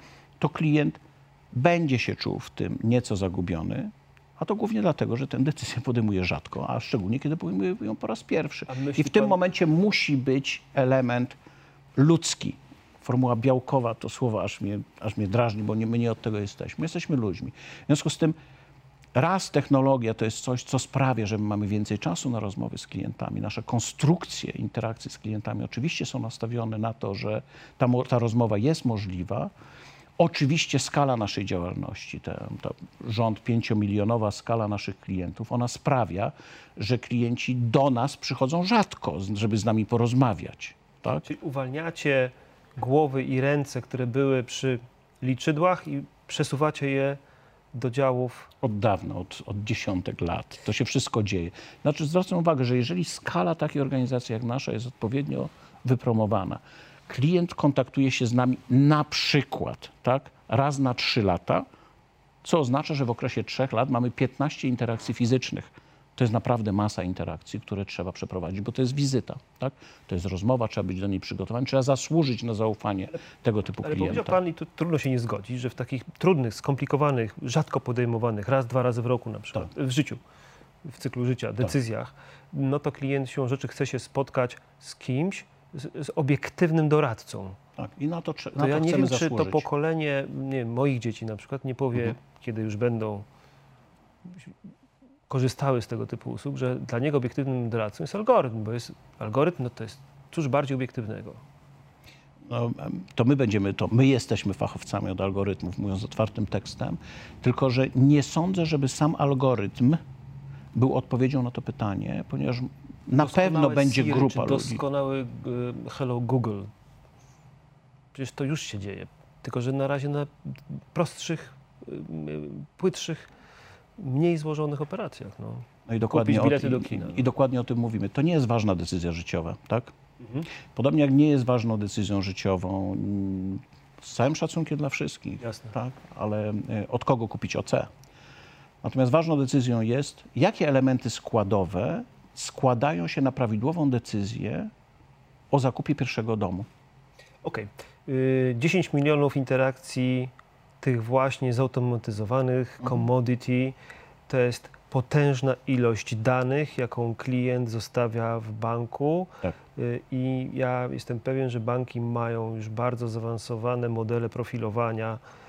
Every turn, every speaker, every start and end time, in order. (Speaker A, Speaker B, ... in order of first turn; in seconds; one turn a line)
Speaker A: 0.4-1.0
Speaker A: 1.5-11.4
Speaker B: 8.7-9.4
Speaker A: 12.0-18.4
Speaker A: 19.1-29.5
Speaker A: 30.2-41.3
Speaker B: 41.2-47.2
Speaker B: 47.7-48.5
Speaker A: 48.6-61.7
Speaker A: 62.4-74.4
Speaker B: 73.8-80.2
Speaker B: 80.8-87.6
Speaker A: 87.8-89.7
Speaker B: 88.6-93.3
Speaker B: 95.3-101.4
Speaker A: 102.5-110.0
Speaker A: 110.7-114.8
Speaker B: 113.2-116.7
Speaker B: 118.1-123.3
Speaker B: 124.0-127.3
Speaker A: 125.9-129.9
Speaker A: 130.7-137.9
Speaker B: 135.4-135.7
Speaker A: 138.8-144.7
Speaker A: 145.5-146.7
Speaker B: 147.4-153.8
Speaker B: 154.3-165.2